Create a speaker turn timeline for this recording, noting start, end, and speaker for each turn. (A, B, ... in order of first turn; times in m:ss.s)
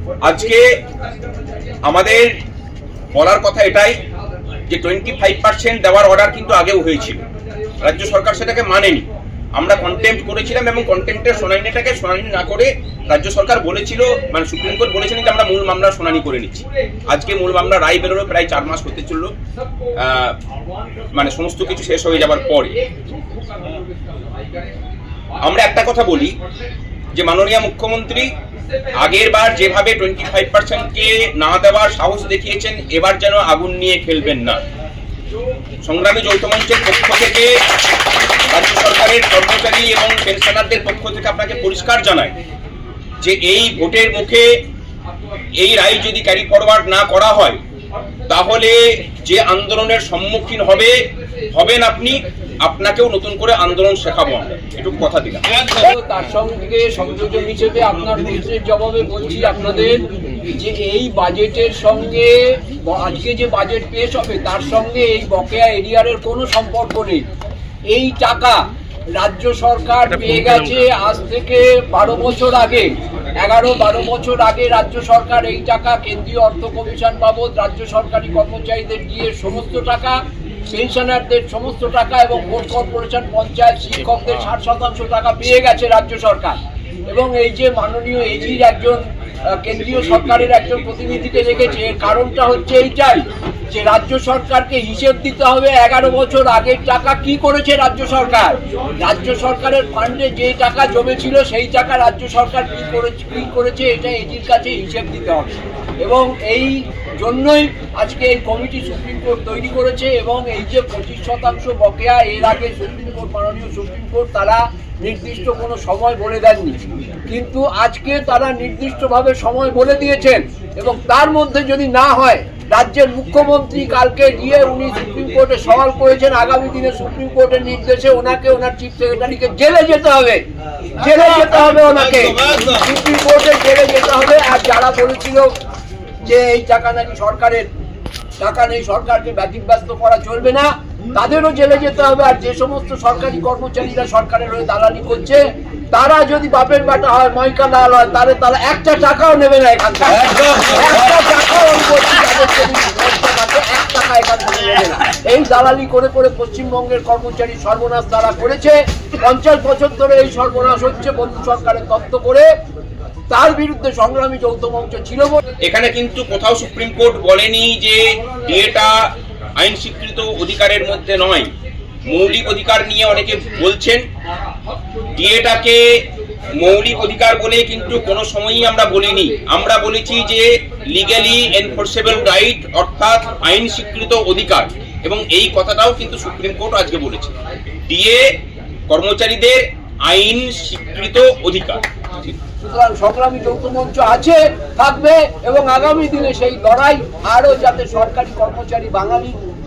0:00.2-0:00.6 A
0:01.9-0:02.3 A
0:03.1-0:04.0 A
0:04.7-0:07.2 A
0:07.8-0:09.0 A
0:09.6-0:19.3 A
0:20.0-0:20.4 A
0:21.1-0:22.8 A
0:25.4-0:26.4 A
0:27.1-0:28.3 A
0:29.0-0:34.6 A
0:35.8-0:37.5 A
0:38.5-0:42.3 A
0:43.2-0:44.5 A
0:45.6-0:47.6 A
0:48.3-0:51.0 A
0:51.5-0:55.4 A
0:55.6-1:07.2 B
1:07.9-1:08.6 B
1:09.2-1:26.6 B
1:27.1-2:10.4 B
2:11.0-2:15.5 B
2:11.2-2:12.6 A
2:16.2-2:17.7 B
2:18.4-2:25.4 B
2:25.9-2:42.5 B
2:30.3-2:30.6 A
2:43.3-2:45.4 B
2:45.6-2:49.0 A
2:49.6-2:51.5 A
2:52.1-2:54.0 A
2:55.2-2:55.8 A
2:56.6-3:07.3 A
3:07.9-3:08.2 A
3:08.9-3:12.4 A
3:12.6-3:19.4 B